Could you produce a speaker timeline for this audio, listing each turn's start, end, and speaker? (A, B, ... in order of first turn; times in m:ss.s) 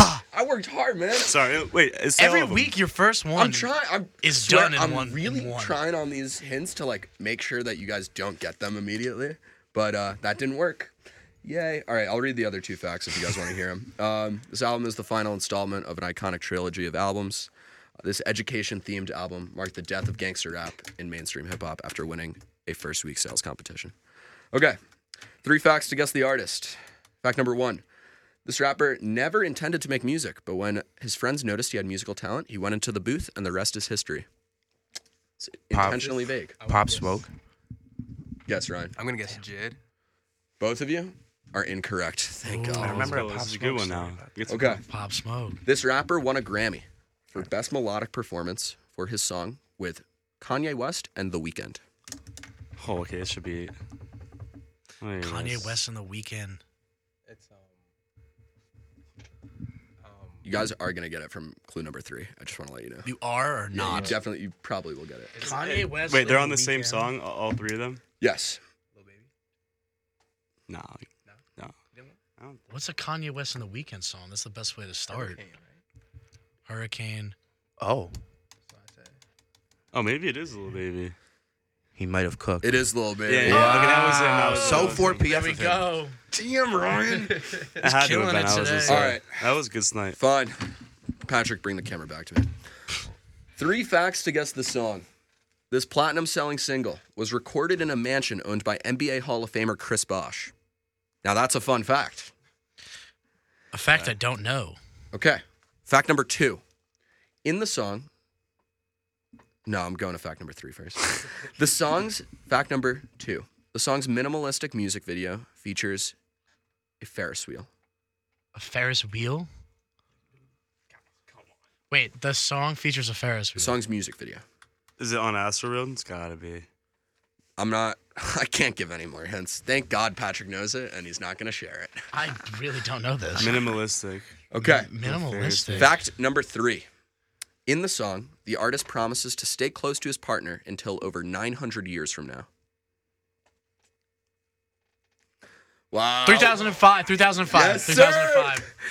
0:00.3-0:01.4 A
0:01.2-0:02.7 B
0:02.2-0:05.8 C
0:03.4-0:23.9 A
0:24.5-0:24.8 A
0:25.4-0:27.8 A
0:28.4-0:34.2 A
0:35.6-0:36.6 A
0:35.7-0:37.3 D
0:36.6-0:37.2 E
0:38.5-0:39.0 A
0:39.0-0:39.8 E
0:40.6-0:43.2 A
0:42.4-0:43.3 C
0:42.8-0:44.3 D
0:42.8-0:44.8 B
0:44.5-0:44.8 A
0:44.6-0:45.6 C
0:45.6-0:51.8 A
0:52.8-0:53.8 B
0:55.0-0:55.8 B
0:55.2-0:56.6 C
0:57.2-0:57.8 E
1:00.0-1:00.5 E
1:00.4-1:03.1 A
1:03.0-1:04.2 C
1:03.7-1:05.4 A
1:05.3-1:06.0 E
1:05.4-1:07.1 C
1:05.7-1:08.0 B
1:08.2-1:08.6 A
1:09.0-1:09.3 E
1:10.7-1:11.8 B
1:11.2-1:12.2 E
1:12.7-1:15.4 C
1:15.1-1:15.8 E
1:16.7-1:17.4 C
1:17.8-1:18.1 D
1:18.7-1:19.2 E
1:19.9-1:21.2 B
1:22.0-1:22.8 D
1:22.6-1:23.9 A
1:23.2-1:25.2 B
1:23.4-1:25.9 D
1:23.5-1:26.2 C
1:26.3-1:27.3 A
1:27.1-1:27.7 E
1:27.8-1:29.1 C
1:27.8-1:30.2 B
1:28.9-1:29.5 A
1:30.2-1:30.6 A
1:31.2-1:32.5 A
1:33.6-1:35.0 A
1:35.7-1:40.5 A
1:41.2-1:42.3 A
1:43.7-1:44.8 C
1:45.1-1:46.6 A
1:47.4-1:48.1 A
1:49.6-1:56.1 A
1:57.0-1:57.7 A
1:58.6-1:59.5 C
2:01.9-2:03.8 C
2:03.6-2:04.4 A
2:05.0-2:06.6 B
2:07.6-2:12.0 A
2:12.1-2:13.7 C
2:13.4-2:14.3 B
2:14.5-2:14.9 A
2:14.6-2:15.9 C
2:15.0-2:16.0 B
2:15.8-2:16.9 A
2:17.6-2:22.5 A
2:25.9-2:26.8 A
2:26.2-2:28.7 C
2:27.5-2:28.7 A